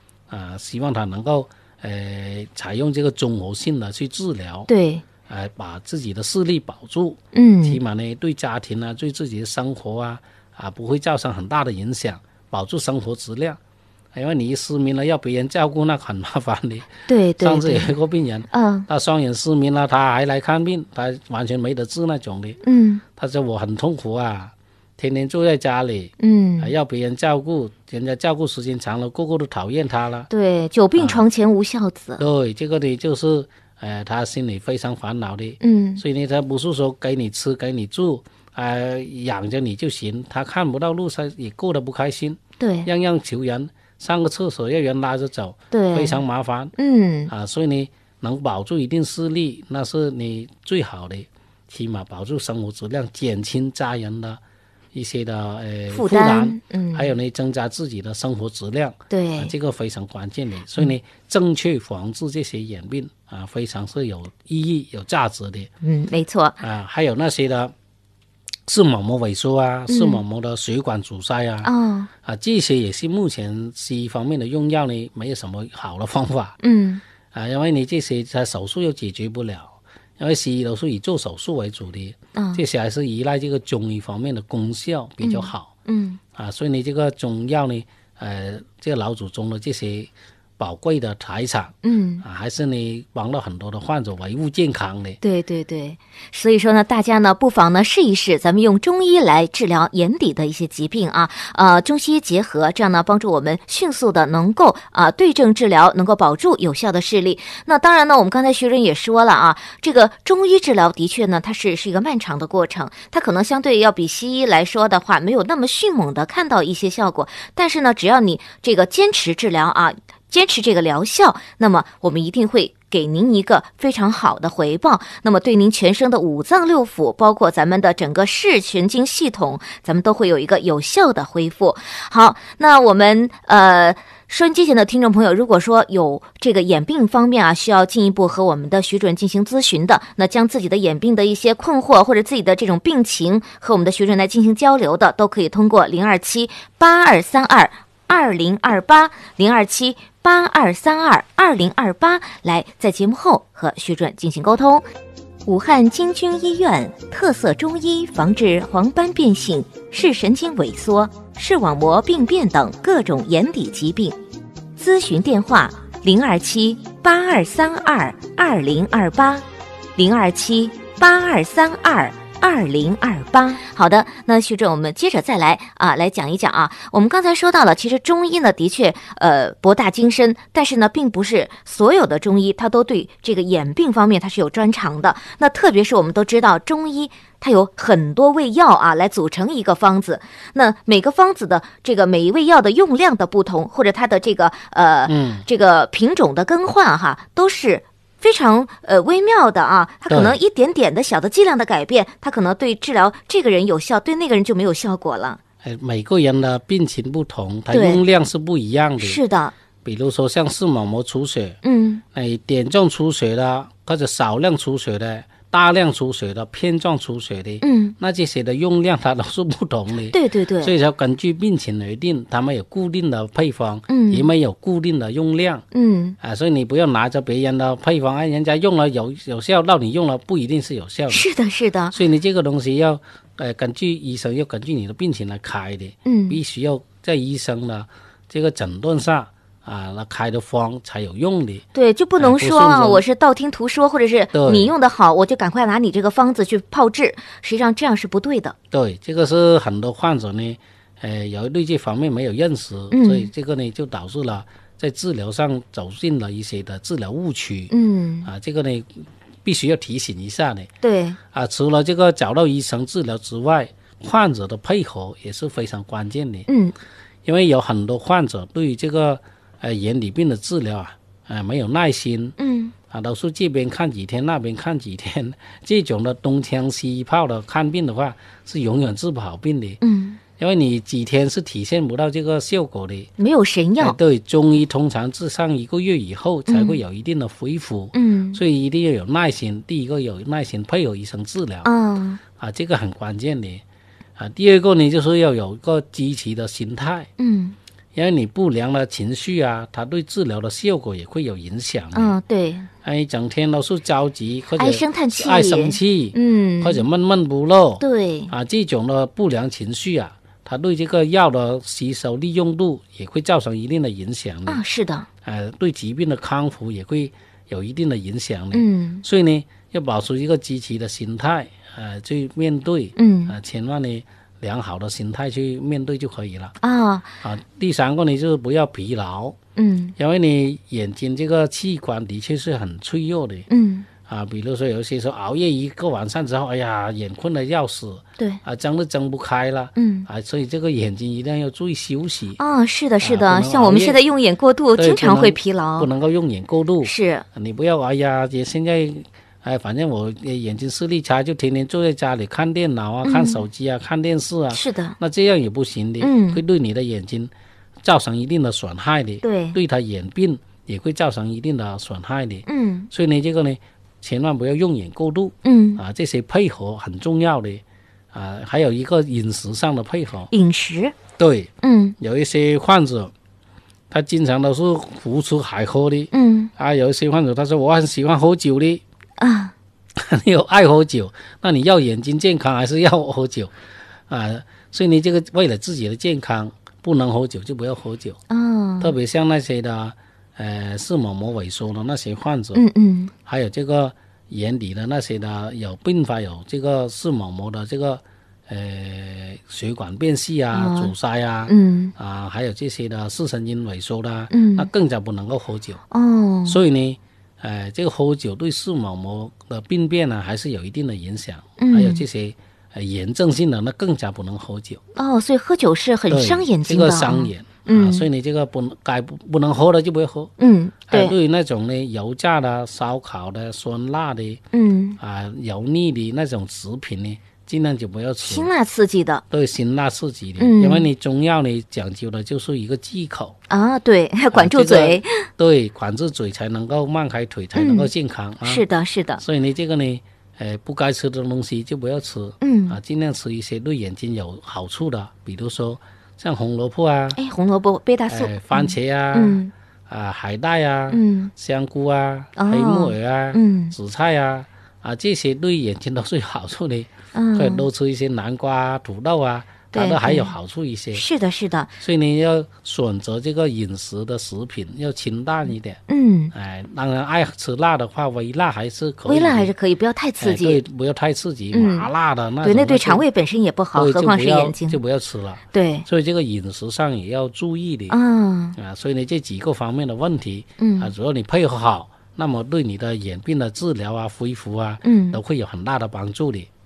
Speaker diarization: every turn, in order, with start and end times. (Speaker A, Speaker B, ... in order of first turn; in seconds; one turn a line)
Speaker A: 0.3-4.7
Speaker B: 4.7-5.0
Speaker A: 5.3-13.6
Speaker B: 7.3-7.8
Speaker A: 14.1-22.6
Speaker B: 17.1-17.9
Speaker B: 18.5-18.9
Speaker B: 22.6-23.0
Speaker A: 23.2-30.3
Speaker B: 26.2-26.7
Speaker B: 30.3-32.2
Speaker A: 31.0-31.2
Speaker A: 32.2-46.8
Speaker B: 35.6-36.0
Speaker B: 42.6-42.9
Speaker B: 45.7-46.2
Speaker B: 46.8-47.3
Speaker A: 47.3-54.4
Speaker A: 54.9-65.7
Speaker B: 55.9-57.1
Speaker B: 59.1-59.5
Speaker B: 65.8-66.6
Speaker A: 66.6-67.7
Speaker A: 68.7-71.7
Speaker B: 69.9-70.2
Speaker B: 71.6-72.1
Speaker A: 72.2-76.6
Speaker B: 76.6-77.0
Speaker A: 77.3-85.7
Speaker B: 82.3-82.6
Speaker B: 85.2-86.2
Speaker A: 86.3-95.2
Speaker B: 91.8-92.2
Speaker B: 95.2-154.8
Speaker B: 155.5-164.2
Speaker B: 164.8-169.4
Speaker B: 170.0-205.4
Speaker A: 195.1-195.5
Speaker A: 200.1-200.4
Speaker A: 205.6-209.2
Speaker B: 207.7-208.0
Speaker B: 209.0-209.5
Speaker A: 209.8-211.6
Speaker B: 211.6-212.0
Speaker A: 212.1-225.6
Speaker B: 217.6-217.9
Speaker B: 220.1-220.7
Speaker B: 223.9-224.3
Speaker B: 225.7-226.2
Speaker A: 226.2-231.3
Speaker B: 231.1-232.0
Speaker A: 231.9-241.6
Speaker B: 236.1-236.4
Speaker B: 241.7-248.6
Speaker A: 242.2-243.0
Speaker A: 244.3-244.7
Speaker A: 248.7-257.7
Speaker B: 252.9-253.3
Speaker B: 257.7-258.3
Speaker A: 258.2-260.7
Speaker B: 260.8-261.2
Speaker A: 261.3-266.5
Speaker B: 266.5-266.8
Speaker A: 267.2-272.4
Speaker B: 272.4-272.7
Speaker A: 272.9-279.8
Speaker B: 279.8-280.2
Speaker A: 280.4-283.1
Speaker B: 283.2-284.0
Speaker A: 283.8-291.7
Speaker B: 286.5-286.8
Speaker B: 287.9-288.4
Speaker B: 291.6-292.2
Speaker A: 292.4-293.6
Speaker A: 294.2-297.1
Speaker B: 297.2-297.6
Speaker A: 297.9-302.2
Speaker B: 301.9-302.7
Speaker A: 302.8-314.6
Speaker B: 304.6-306.9
Speaker B: 307.8-308.3
Speaker B: 314.5-315.1
Speaker A: 315.2-326.6
Speaker B: 318.5-319.0
Speaker B: 323.0-323.4
Speaker B: 326.6-327.1
Speaker A: 327.2-329.4
Speaker B: 329.6-329.9
Speaker A: 330.0-333.5
Speaker B: 333.5-333.9
Speaker A: 334.1-342.4
Speaker B: 339.8-340.1
Speaker B: 342.4-345.9
Speaker A: 343.0-344.0
Speaker A: 344.8-357.3
Speaker B: 346.8-347.2
Speaker B: 353.0-353.4
Speaker B: 354.5-355.0
Speaker B: 356.0-356.4
Speaker A: 357.8-370.3
Speaker B: 359.2-359.6
Speaker B: 362.5-362.9
Speaker B: 365.4-365.8
Speaker B: 370.3-370.9
Speaker A: 371.2-373.1
Speaker B: 371.6-371.9
Speaker A: 373.9-378.8
Speaker B: 376.1-376.5
Speaker B: 379.2-379.5
Speaker A: 380.0-383.5
Speaker A: 384.1-388.2
Speaker B: 388.3-388.9
Speaker A: 388.8-392.6
Speaker B: 392.5-393.1
Speaker A: 393.3-405.8
Speaker B: 400.5-400.9
Speaker B: 401.5-401.9
Speaker B: 404.3-404.7
Speaker B: 405.9-406.6
Speaker A: 406.5-414.8
Speaker B: 411.6-412.0
Speaker B: 415.0-418.1
Speaker A: 416.1-420.3
Speaker B: 420.4-421.1
Speaker A: 420.9-424.4
Speaker B: 424.5-425.0
Speaker A: 425.0-428.5
Speaker B: 428.2-429.2
Speaker A: 429.3-433.4
Speaker B: 430.4-430.9
Speaker B: 433.5-435.3
Speaker A: 434.3-438.6
Speaker B: 437.6-437.9
Speaker B: 438.4-439.2
Speaker A: 439.2-447.2
Speaker B: 442.4-442.8
Speaker B: 447.1-449.5
Speaker A: 448.1-461.0
Speaker B: 450.9-451.3
Speaker B: 452.4-453.8
Speaker B: 457.1-457.7
Speaker B: 459.7-460.3
Speaker B: 460.9-461.7
Speaker A: 461.8-465.8
Speaker B: 465.9-466.3
Speaker A: 466.3-469.5
Speaker B: 469.1-470.6
Speaker A: 470.2-473.1
Speaker B: 471.5-471.9
Speaker B: 472.4-474.8
Speaker A: 473.8-478.0
Speaker B: 475.5-475.9
Speaker B: 477.9-478.6
Speaker A: 478.6-486.5
Speaker B: 480.6-480.9
Speaker B: 484.8-485.2